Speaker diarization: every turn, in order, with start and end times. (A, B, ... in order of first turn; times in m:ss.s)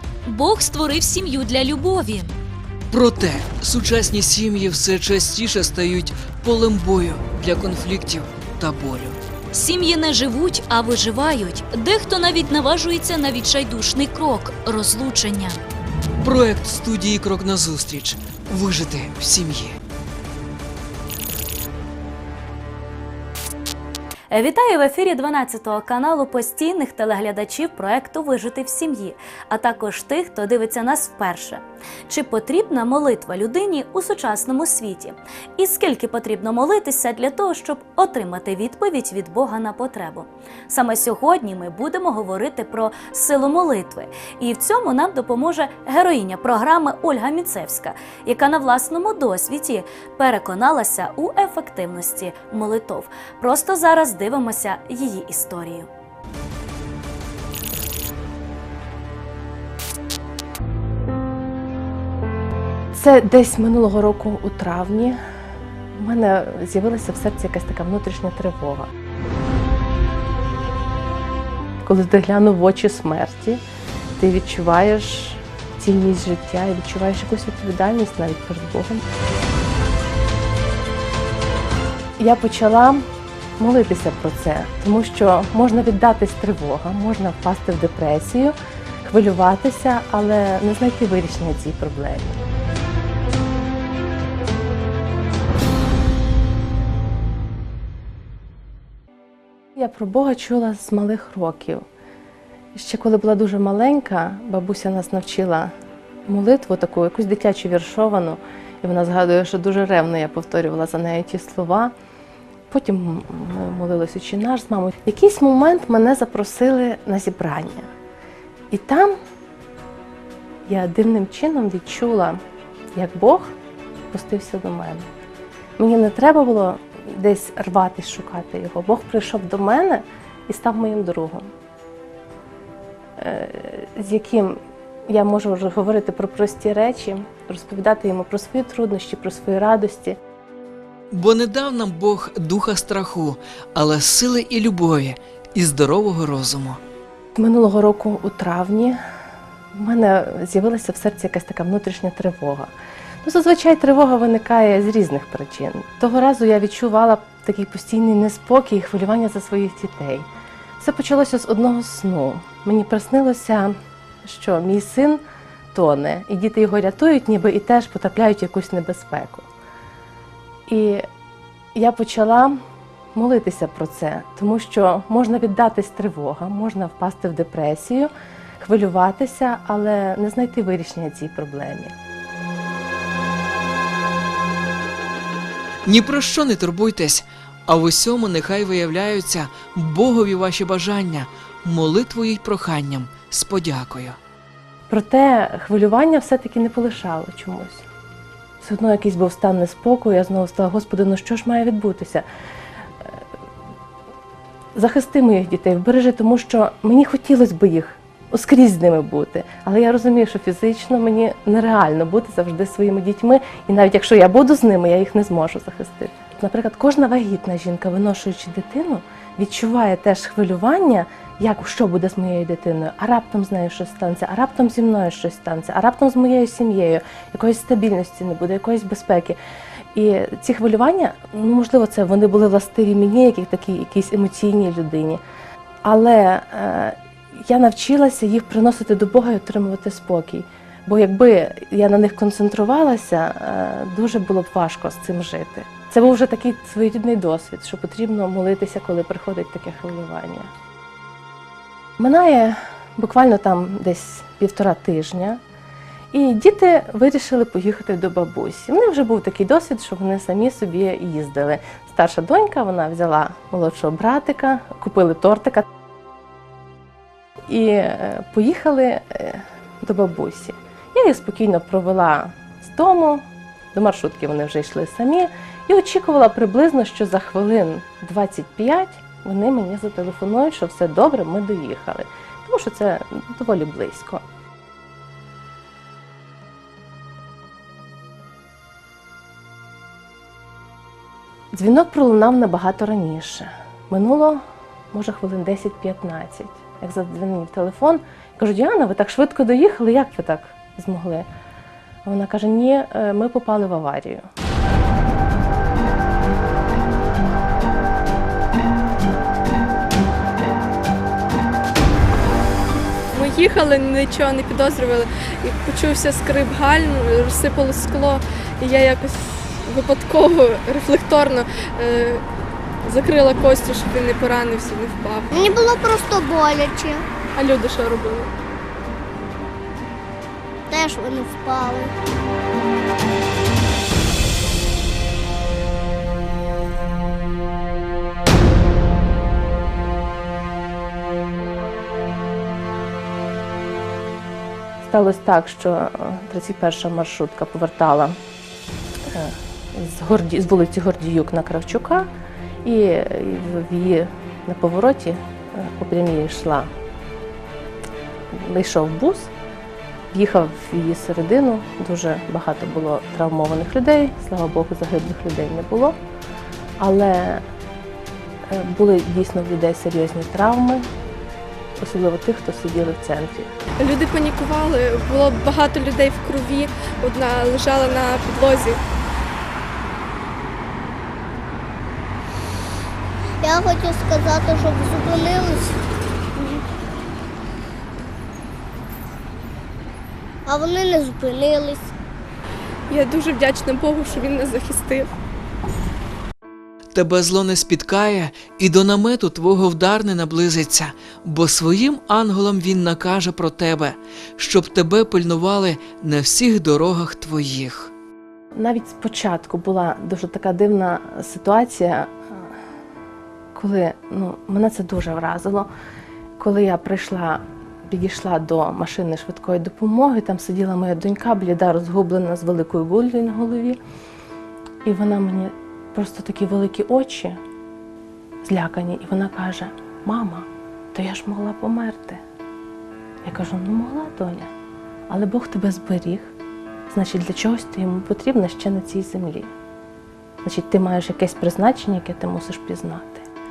0:00.3-0:02.4 A
0:02.9-0:09.2 B
0:09.5-0:15.6 A
0:16.2-0:19.8 B
0:24.3-0:55.9 A
1:02.9-1:05.2 C
1:06.0-1:08.9 C
1:11.8-1:13.6 C
1:14.2-1:19.0 C
1:22.2-1:23.0 C
1:23.6-1:32.4 C
1:39.8-1:41.8 C
1:42.7-1:45.7 C
1:46.3-1:51.9 C
1:52.7-1:57.9 C
1:58.7-1:59.2 C
2:00.7-2:02.4 C
2:02.9-2:03.5 C
2:04.1-2:05.1 C
2:05.8-2:11.5 C
2:13.2-2:20.2 C
2:21.1-2:26.8 B
2:27.4-2:29.0 C
2:29.7-2:32.7 C
2:33.2-2:40.3 C
2:40.8-2:45.2 C
2:45.7-2:49.5 C
2:50.7-2:51.1 C
2:51.8-2:52.6 C
2:53.1-3:01.9 C
3:05.9-3:14.2 B
3:14.9-3:17.8 C
3:18.6-3:22.2 C
3:24.8-3:49.4 C
3:49.9-3:55.2 C
3:55.8-4:10.5 C
4:12.0-4:15.4 C
4:16.1-4:25.7 C
4:27.5-4:33.2 C
4:33.7-4:44.2 C
4:51.5-4:54.4 C
4:54.9-5:01.3 C
5:02.0-5:04.2 C
5:13.1-5:22.2 D
5:22.8-5:25.3 D
5:25.3-5:27.1 E
5:27.4-5:28.3 D
5:30.7-5:31.9 E
5:44.8-5:48.2 C
5:49.1-5:52.1 C
5:52.6-5:56.7 C
5:58.3-5:59.3 C
6:00.1-6:06.0 C
6:06.8-6:07.4 C
6:08.5-6:10.9 C
6:11.8-6:13.5 C
6:13.8-6:18.8 D
6:23.4-6:25.8 E
6:30.5-6:31.9 E
6:32.9-6:35.1 D
6:36.9-6:47.9 B
6:48.6-6:52.4 C
6:53.6-6:55.7 C
6:56.4-7:03.8 C
7:04.8-7:07.4 C
7:08.4-7:12.2 C
7:13.2-7:14.5 C
7:15.1-7:16.3 C
7:16.9-7:19.5 C
7:20.4-7:23.3 C